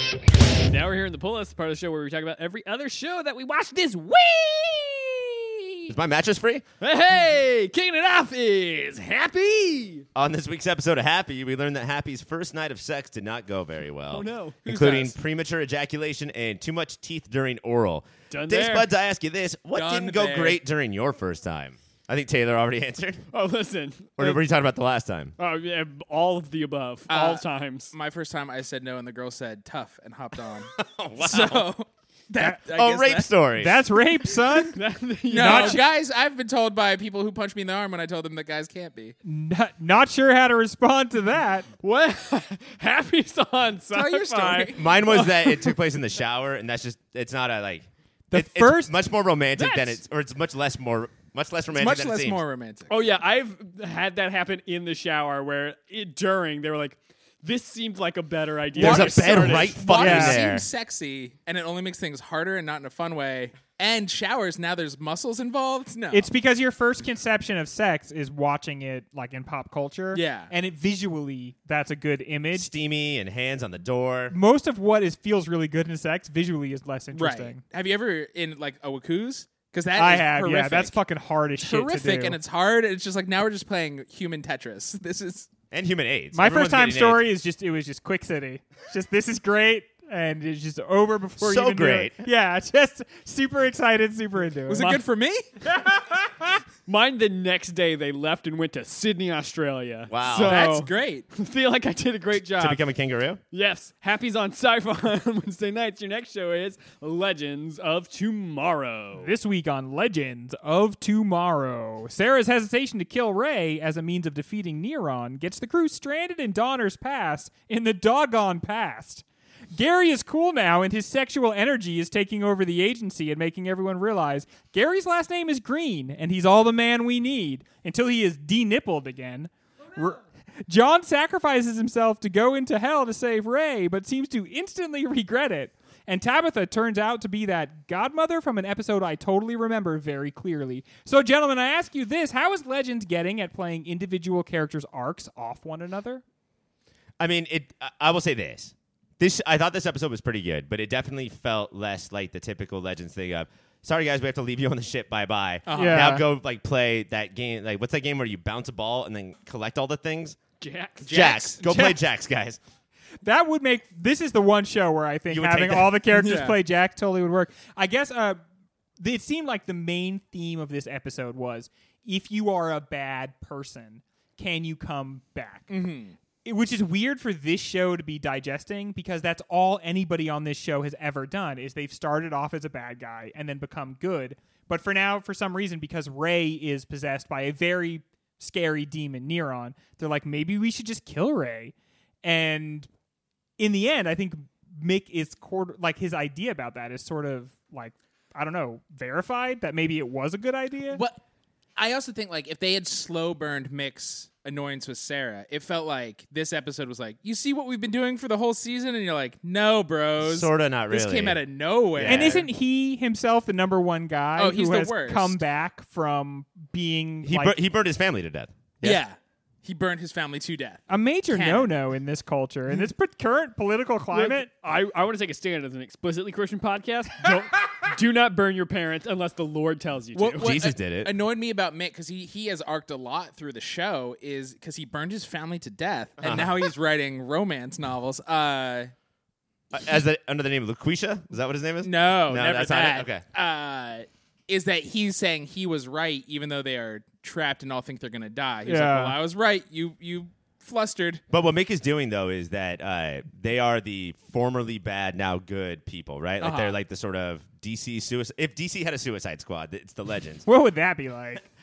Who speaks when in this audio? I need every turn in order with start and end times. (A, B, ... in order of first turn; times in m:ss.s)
0:00.6-0:05.9 A
0:05.9-0:06.6 B
0:06.8-0:10.0 A
0:10.1-0:23.2 B
0:14.1-0:15.2 A
0:18.3-0:18.9 A
0:19.7-0:20.6 C
0:23.3-0:24.4 A
0:24.2-0:25.3 B
0:25.4-0:27.9 A
0:27.1-0:33.3 C
0:30.8-0:31.7 B
0:32.7-0:33.8 B
0:33.6-0:34.8 D
0:34.7-0:35.8 A
0:35.3-0:39.1 C
0:35.3-0:35.8 D
0:39.2-0:41.7 D
0:41.8-0:45.6 A
0:43.9-0:45.3 C
0:44.7-0:52.4 B
0:48.3-0:48.9 D
0:49.6-0:49.9 A
0:51.7-0:52.9 C
0:52.9-0:59.8 A
0:58.8-1:00.7 B
0:58.8-1:06.3 C
1:00.0-1:00.4 D
1:06.1-1:12.7 D
1:10.1-1:10.5 C
1:12.5-1:14.4 B
1:14.3-1:17.6 D
1:17.1-1:21.0 C
1:20.0-1:22.4 D
1:21.6-1:25.5 C
1:25.7-1:27.3 B
1:26.3-1:34.8 D
1:31.4-1:32.2 B
1:34.7-1:35.5 C
1:34.7-1:35.0 A
1:35.7-1:36.2 D
1:36.8-1:42.8 A
1:40.1-1:40.6 B
1:40.3-1:41.3 C
1:42.5-1:43.4 B
1:43.5-1:49.3 A
1:49.2-1:59.2 D
1:59.7-2:26.2 D
2:27.2-2:40.4 B
2:35.7-2:36.2 C
2:35.7-2:36.2 D
2:40.6-2:41.3 A
2:41.0-2:41.6 C
2:41.1-2:42.6 B
2:41.6-2:42.0 D
2:43.2-2:48.4 D
2:45.3-2:46.0 B
2:46.1-2:46.6 C
2:49.0-2:55.7 D
2:55.7-2:56.1 C
2:56.4-3:12.9 D
3:13.6-3:21.0 D
3:20.9-3:21.2 C
3:21.8-3:32.5 C
3:30.2-3:31.4 B
3:31.9-3:32.4 B
3:32.0-3:37.6 D
3:34.4-3:35.4 C
3:37.2-3:39.0 B
3:38.8-3:41.7 C
3:40.9-3:44.5 D
3:44.1-3:50.5 A
3:50.1-3:58.9 C
3:50.4-3:51.1 B
3:56.2-3:56.6 B
3:59.7-4:03.2 B
4:01.8-4:11.2 C
4:08.6-4:09.2 D
4:11.3-4:20.4 B
4:16.4-4:16.8 C
4:20.4-4:21.4 D